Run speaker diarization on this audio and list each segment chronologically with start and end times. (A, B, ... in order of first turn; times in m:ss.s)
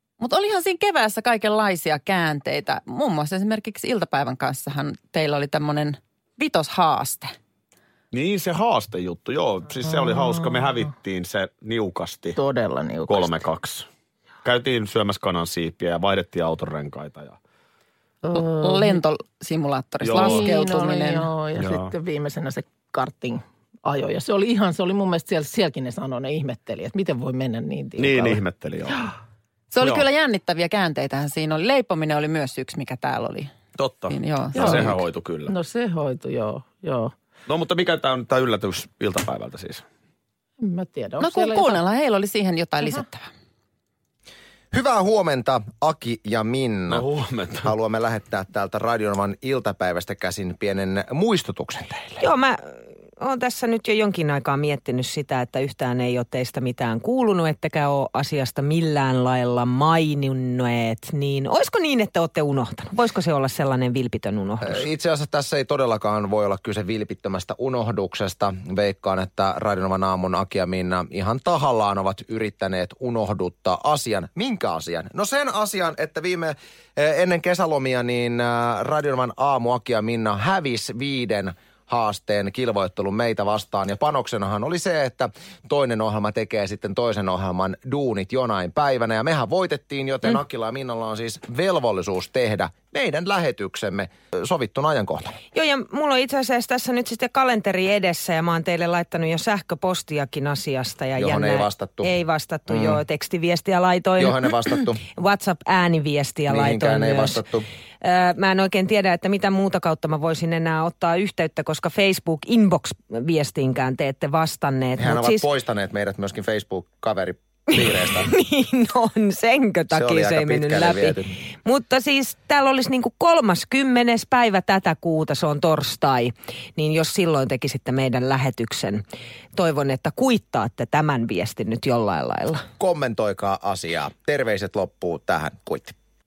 0:00.2-0:07.3 A
0:08.1-0:12.4 B
0:12.4-0:13.4 C
0:13.1-0:13.9 B
0:14.4-0:17.4 B
0:18.2-0:19.0 C
0:18.3-0:21.3 A
0:20.0-0:20.5 B
0:20.2-0:28.4 C
0:21.6-0:21.9 B
0:28.0-0:29.0 B
0:29.7-0:33.5 A
0:29.8-0:30.0 B
0:33.8-0:35.5 B
0:34.1-0:35.0 A
0:34.5-0:34.9 C
0:35.5-0:37.1 C
0:37.5-0:39.8 B
0:40.6-0:41.8 C
0:41.2-0:43.3 A
0:44.7-0:47.1 D
0:46.9-0:47.7 B
0:47.6-0:52.2 D
0:52.2-1:04.8 E
1:04.6-1:35.4 D
1:35.5-1:47.4 E
1:41.2-1:42.1 D
1:42.7-1:43.0 D
1:44.2-1:45.0 D
1:46.5-1:47.6 D
1:48.0-1:55.4 E
1:55.0-1:58.3 D
1:58.3-2:09.0 E
1:59.9-2:01.3 D
2:09.5-2:12.6 E
2:12.8-2:16.0 D